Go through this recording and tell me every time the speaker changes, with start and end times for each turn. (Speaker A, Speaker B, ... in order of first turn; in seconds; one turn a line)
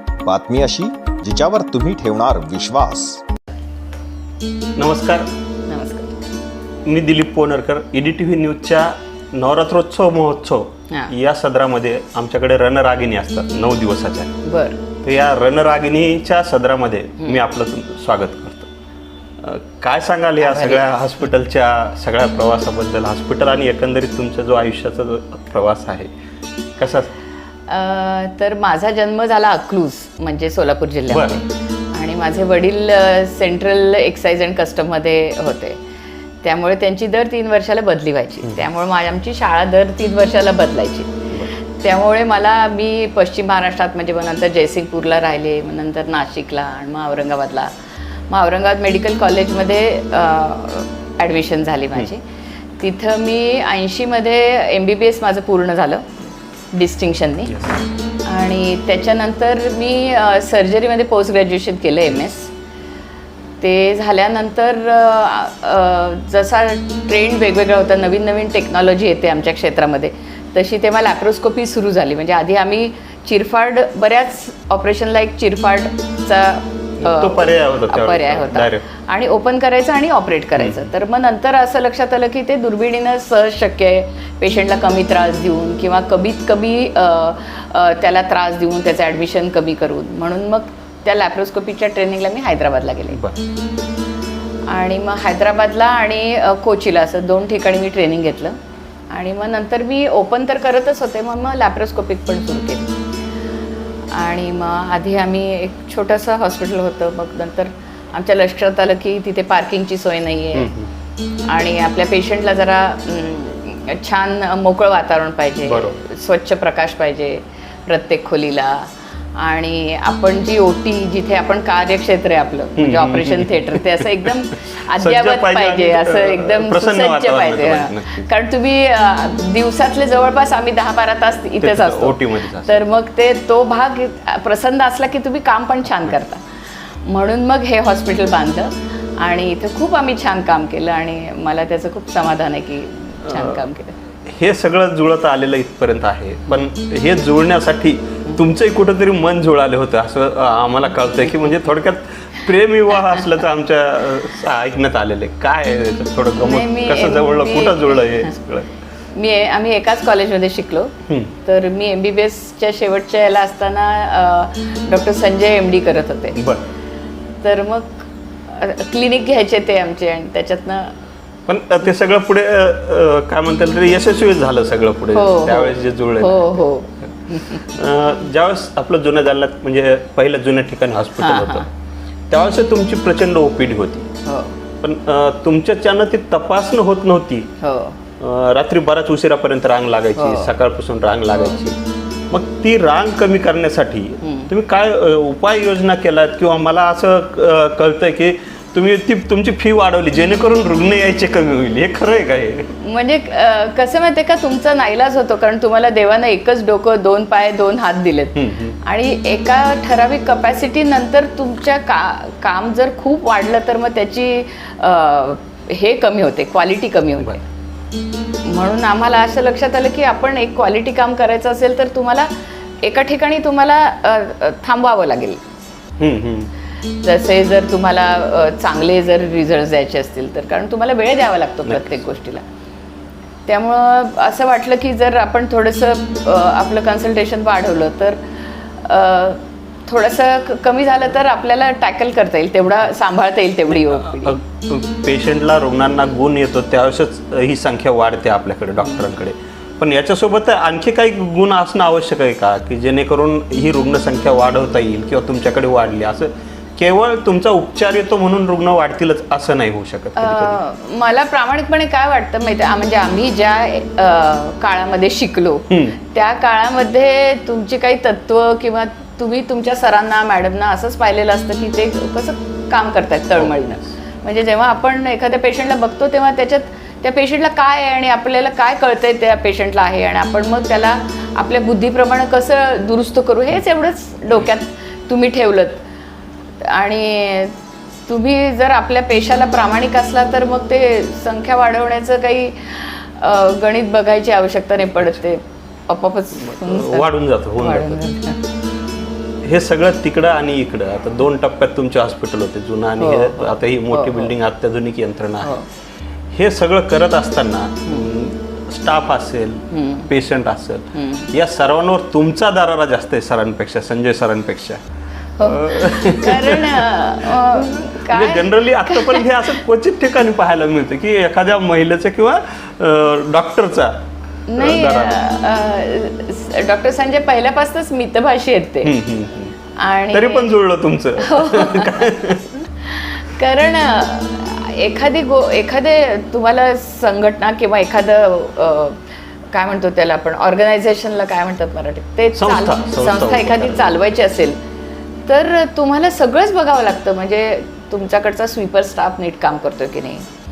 Speaker A: 0.2-3.2
Speaker B: 4.8-5.2
Speaker C: 5.7-6.2
Speaker B: 6.8-14.3
Speaker C: 14.4-14.8
Speaker B: 15.0-18.7
Speaker B: 19.4-26.1
Speaker C: 20.4-20.8
Speaker B: 26.8-27.1
Speaker C: 27.7-35.8
Speaker B: 31.1-31.4
Speaker C: 36.4-47.7
Speaker C: 48.3-52.2
Speaker C: 52.8-56.1
Speaker C: 56.7-57.7
Speaker B: 57.5-57.8
Speaker C: 58.2-62.5
Speaker C: 63.6-93.2
Speaker B: 77.0-78.9
Speaker B: 80.5-80.8
Speaker B: 93.1-93.4
Speaker C: 94.7-98.6
Speaker C: 99.1-102.9
Speaker C: 104.1-110.7
Speaker B: 110.5-110.9
Speaker C: 111.5-136.4
Speaker B: 115.6-116.0
Speaker B: 122.8-124.1
Speaker B: 124.9-128.3
Speaker B: 131.6-132.8
Speaker C: 137.0-144.0
Speaker B: 143.2-143.6
Speaker B: 144.3-158.7
Speaker C: 156.3-158.3
Speaker C: 159.1-166.4
Speaker B: 161.1-161.3
Speaker B: 166.3-166.6
Speaker C: 167.4-170.9
Speaker B: 171.5-176.6
Speaker C: 175.1-177.8
Speaker B: 177.3-181.7
Speaker C: 181.2-181.7
Speaker B: 182.3-184.1
Speaker C: 184.2-184.6
Speaker B: 184.8-187.5
Speaker C: 187.6-188.0
Speaker B: 188.2-191.8
Speaker C: 190.2-190.5
Speaker C: 191.3-191.6
Speaker B: 192.3-202.7
Speaker C: 194.2-194.5
Speaker C: 202.8-217.4
Speaker B: 208.3-208.8
Speaker C: 218.4-222.3
Speaker C: 222.8-225.4
Speaker B: 226.0-226.5
Speaker C: 227.0-232.4
Speaker B: 231.6-232.0
Speaker C: 233.4-238.2
Speaker C: 238.8-244.4
Speaker B: 243.7-260.6
Speaker C: 260.2-285.8
Speaker B: 265.7-266.0
Speaker B: 273.4-273.8
Speaker C: 286.6-287.6
Speaker C: 288.1-298.4
Speaker B: 296.4-298.0
Speaker B: 299.4-305.6
Speaker C: 303.0-304.3
Speaker C: 305.4-305.7
Speaker B: 306.3-314.8
Speaker C: 309.7-310.1
Speaker C: 310.9-311.3
Speaker C: 315.4-319.6
Speaker B: 315.4-324.0
Speaker C: 324.5-328.9
Speaker B: 324.6-325.2
Speaker B: 328.8-329.6
Speaker C: 329.7-330.6
Speaker B: 330.1-332.6
Speaker C: 331.2-339.0
Speaker C: 339.5-344.6
Speaker B: 342.3-344.1
Speaker C: 345.2-350.2